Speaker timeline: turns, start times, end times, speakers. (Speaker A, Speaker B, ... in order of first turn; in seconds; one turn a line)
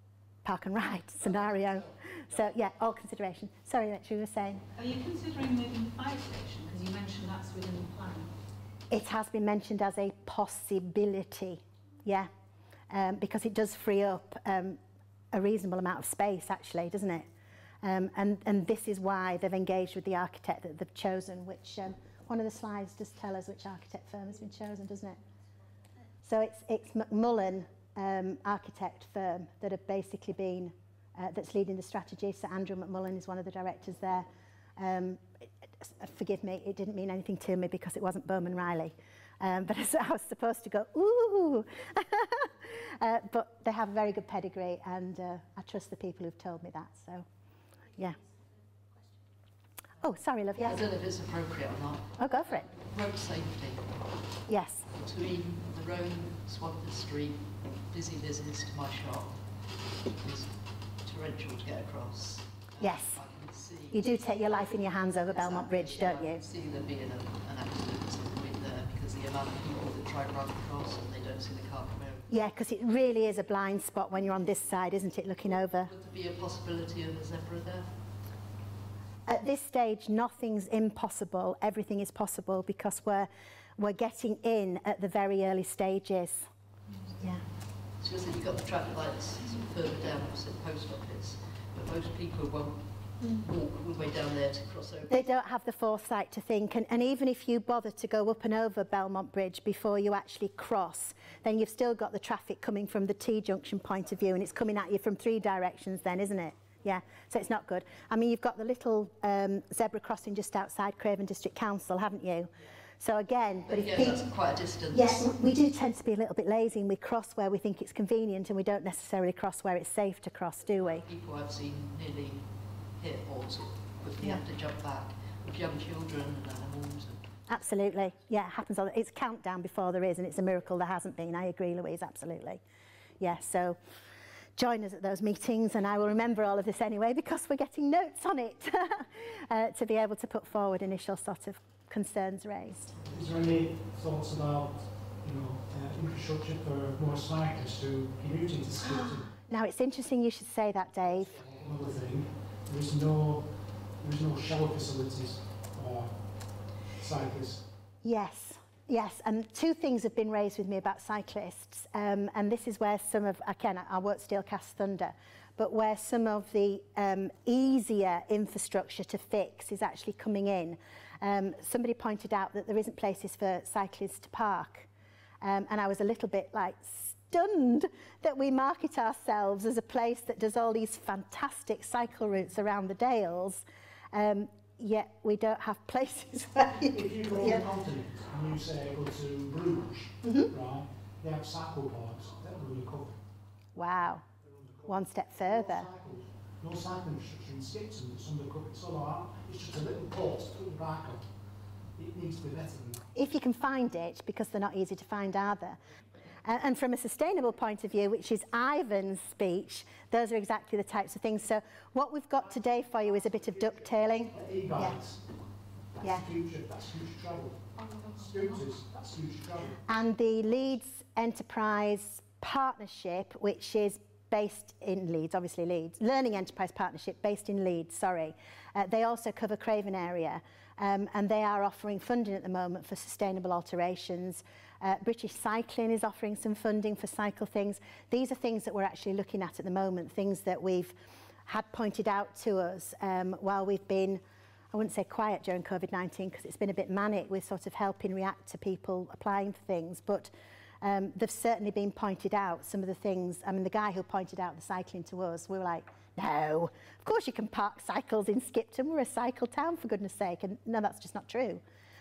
Speaker A: 0.5-4.6
Speaker B: 4.7-8.3
Speaker A: 8.9-12.3
Speaker A: 12.9-14.8
Speaker A: 15.3-17.3
Speaker A: 17.8-25.2
Speaker A: 26.2-34.3
Speaker A: 34.8-35.2
Speaker A: 35.8-47.2
Speaker A: 50.0-50.8
Speaker C: 50.6-72.3
Speaker A: 52.2-52.7
Speaker A: 54.5-54.9
Speaker A: 62.8-63.2
Speaker A: 63.9-66.4
Speaker A: 72.3-75.9
Speaker C: 75.8-78.1
Speaker A: 79.3-86.5
Speaker C: 87.9-95.3
Speaker A: 95.1-114.3
Speaker C: 113.7-115.5
Speaker A: 114.9-121.0
Speaker C: 121.0-127.2
Speaker A: 127.5-132.6
Speaker A: 133.2-133.8
Speaker A: 134.6-142.9
Speaker D: 143.0-149.3
Speaker A: 148.8-151.4
Speaker D: 151.3-157.6
Speaker A: 158.0-174.9
Speaker A: 175.4-187.7
Speaker D: 186.9-193.2
Speaker A: 190.2-190.5
Speaker A: 193.8-194.2
Speaker D: 194.4-201.3
Speaker A: 194.9-195.9
Speaker D: 201.9-203.1
Speaker A: 203.2-205.8
Speaker A: 206.5-215.0
Speaker D: 214.3-215.3
Speaker D: 216.0-219.8
Speaker A: 216.0-216.3
Speaker B: 217.8-218.6
Speaker A: 219.8-240.9
Speaker A: 241.5-244.2
Speaker A: 244.7-250.3
Speaker A: 250.8-261.6